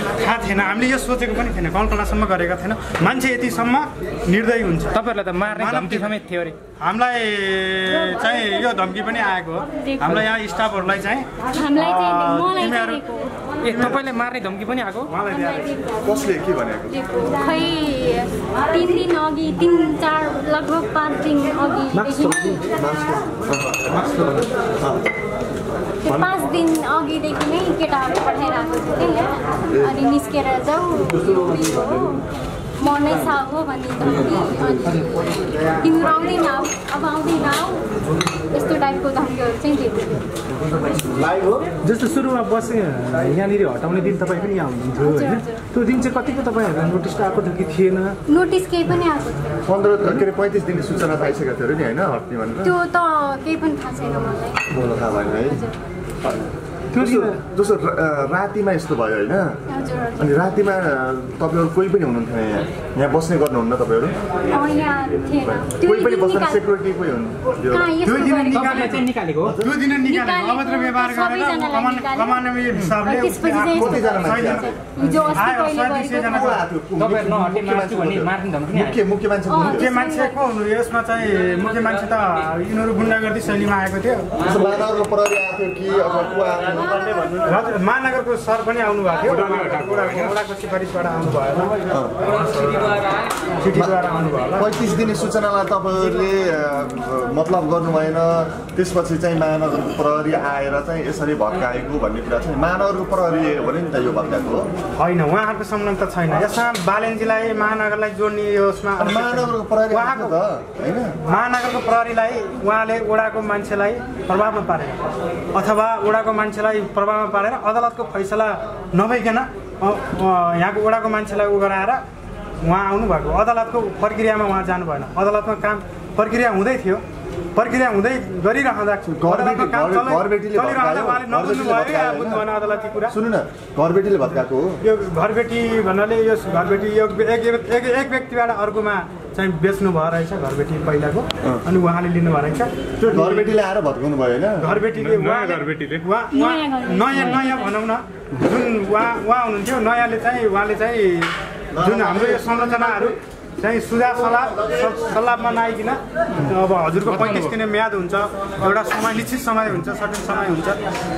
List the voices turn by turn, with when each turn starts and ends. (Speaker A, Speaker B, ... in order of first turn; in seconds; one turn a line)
Speaker A: 0.2-5.0
Speaker B: 4.9-6.6
Speaker A: 5.5-6.1
Speaker A: 6.8-13.0
Speaker C: 9.8-10.2
Speaker C: 11.5-13.3
Speaker B: 13.6-15.1
Speaker A: 13.7-14.0
Speaker A: 15.1-15.8
Speaker C: 15.3-15.9
Speaker D: 16.0-17.0
Speaker C: 16.9-22.7
Speaker E: 21.9-22.6
Speaker D: 22.7-24.0
Speaker E: 23.9-24.4
Speaker D: 24.8-25.1
Speaker C: 26.0-32.2
Speaker C: 32.8-38.0
Speaker C: 38.5-40.2
Speaker E: 41.1-48.2
Speaker C: 45.0-45.6
Speaker C: 48.3-49.6
Speaker D: 49.6-52.7
Speaker C: 52.6-54.6
Speaker D: 54.7-55.6
Speaker C: 55.5-55.7
Speaker E: 56.9-57.4
Speaker D: 56.9-59.6
Speaker C: 59.7-60.3
Speaker D: 60.2-64.2
Speaker C: 64.5-66.7
Speaker D: 65.6-68.0
Speaker C: 67.7-69.1
Speaker A: 68.0-76.6
Speaker B: 68.5-69.5
Speaker D: 69.5-69.8
Speaker C: 70.0-76.6
Speaker D: 73.6-74.8
Speaker D: 76.3-80.0
Speaker B: 77.0-79.0
Speaker C: 79.5-80.4
Speaker A: 79.7-84.6
Speaker D: 84.4-87.1
Speaker C: 86.8-87.5
Speaker A: 87.4-93.0
Speaker D: 91.9-92.3
Speaker A: 93.6-94.7
Speaker D: 94.5-104.7
Speaker A: 105.0-110.3
Speaker D: 109.0-111.2
Speaker A: 111.2-115.0
Speaker A: 115.5-122.0
Speaker A: 122.6-127.0
Speaker A: 127.6-133.2
Speaker D: 129.2-132.5
Speaker D: 133.1-134.8
Speaker A: 134.8-143.6
Speaker D: 143.0-144.9
Speaker A: 144.6-160.8
Speaker C: 146.3-147.8
Speaker D: 151.8-153.1